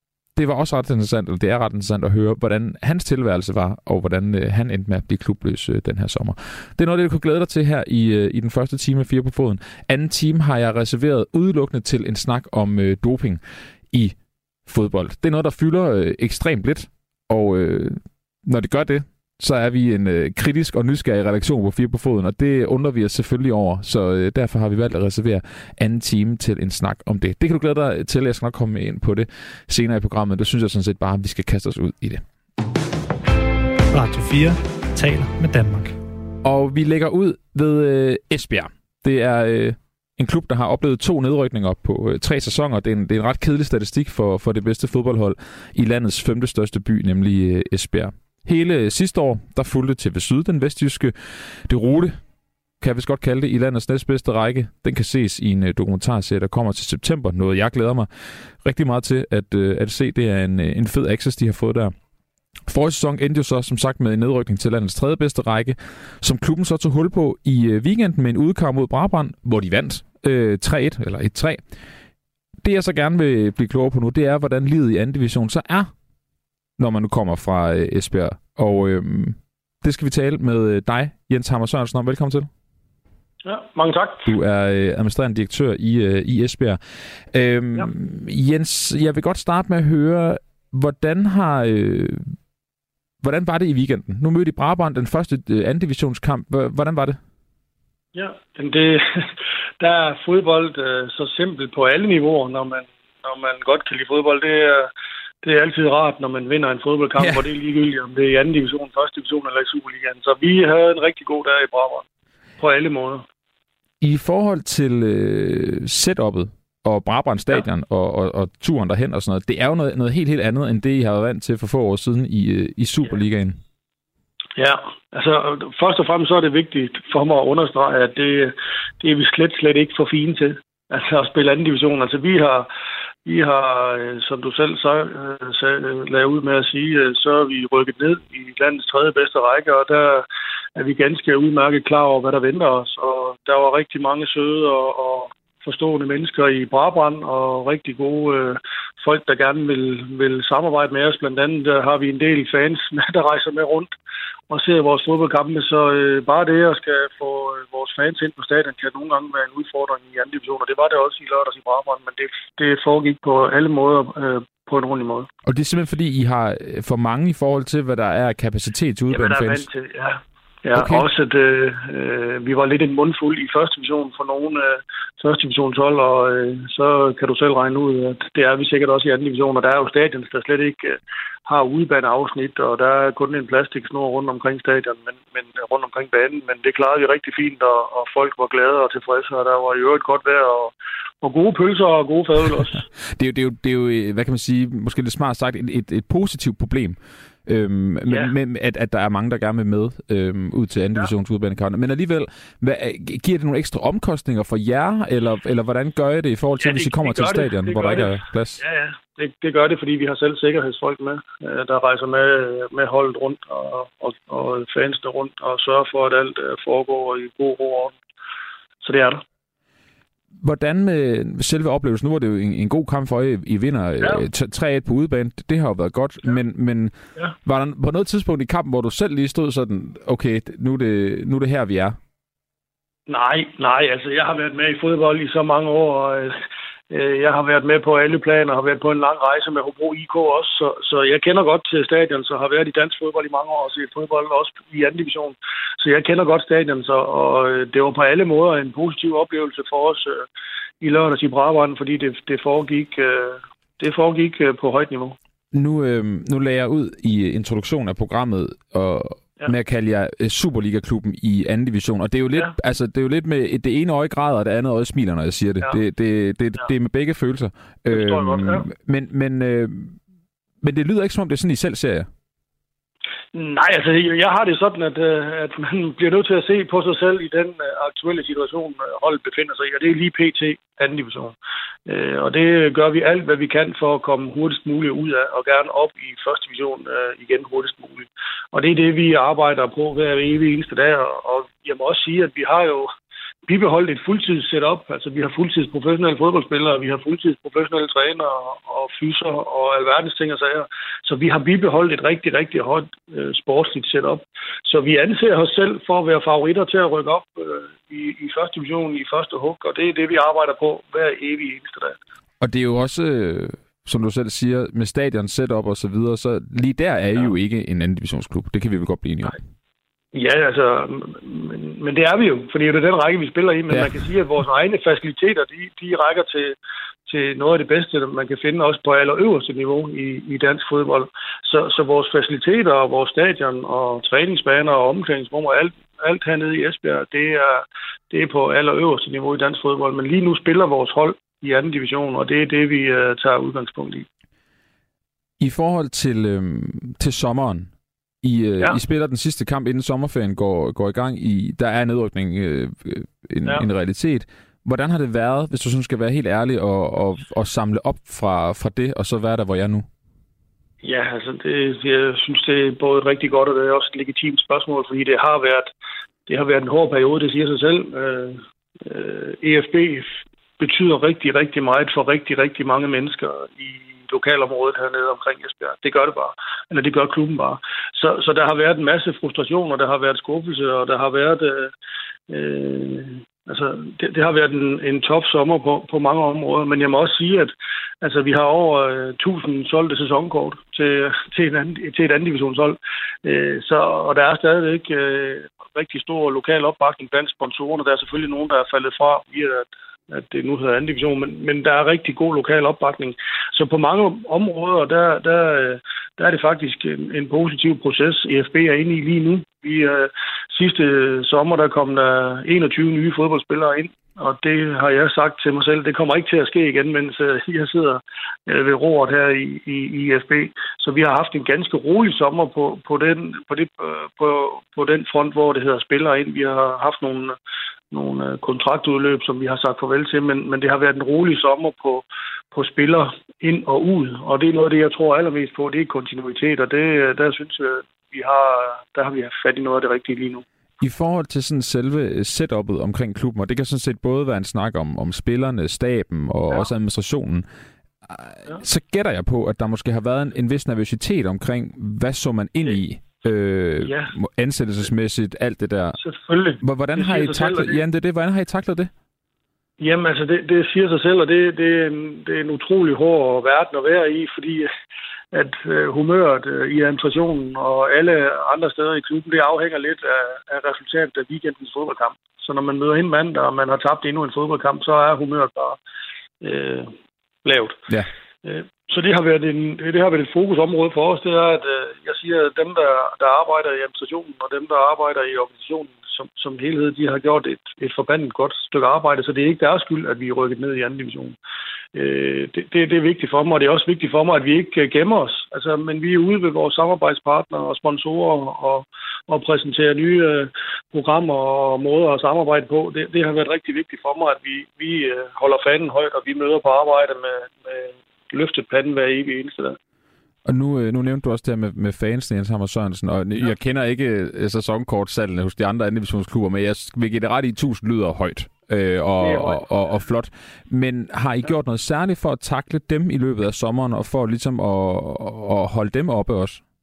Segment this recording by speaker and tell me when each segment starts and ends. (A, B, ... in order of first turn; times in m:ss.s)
0:00.4-0:32.2 A
0:33.9-0:35.9 B
0:36.4-0:52.2 A
0:52.8-0:58.1 A
0:58.6-1:01.9 A
1:02.7-1:11.6 A
1:12.6-1:15.9 A
1:16.8-1:22.5 A
1:23.4-1:24.3 C
1:24.2-1:26.8 A
1:27.3-1:32.4 A
1:33.2-1:37.2 A
1:38.1-1:44.9 C
1:45.4-1:52.0 C
1:47.2-1:47.4 A
1:52.6-1:53.2 C
1:54.0-2:03.6 A
2:04.6-2:12.7 C
2:13.2-2:20.2 C
2:20.8-2:33.9 C
2:34.5-2:45.3 C
2:45.4-2:49.7 A
2:49.1-3:12.8 C
2:50.7-2:51.0 A
3:13.1-3:28.6 A
3:18.1-3:18.3 C
3:26.6-3:38.0 C
3:38.8-3:39.2 C
3:40.4-3:52.0 A
3:53.1-3:56.4 C
3:56.9-4:10.2 C
4:10.8-4:15.2 C
4:15.5-4:30.0 A
4:27.9-4:28.7 C
4:30.6-4:32.1 A
4:33.3-4:41.3 C
4:41.8-4:52.9 C
4:53.5-5:12.0 C
5:12.4-5:19.4 A
5:20.1-5:26.5 C
5:23.7-5:23.9 A
5:27.1-5:44.1 C
5:45.4-5:47.7 A
5:48.2-5:59.9 A
6:00.8-6:05.7 C
6:06.3-6:21.7 C
6:22.3-7:07.3 C
7:07.9-7:20.4 C
7:20.8-7:27.4 A
7:28.0-7:36.0 A
7:33.8-7:34.1 C
7:36.0-7:37.8 C
7:36.6-7:38.9 A
7:39.8-7:44.7 C
7:45.3-7:55.8 C
7:56.4-7:56.9 C
7:57.4-7:57.8 C
7:58.4-8:11.4 C
8:11.9-8:29.8 C
8:30.4-8:46.6 A
8:39.2-8:39.8 C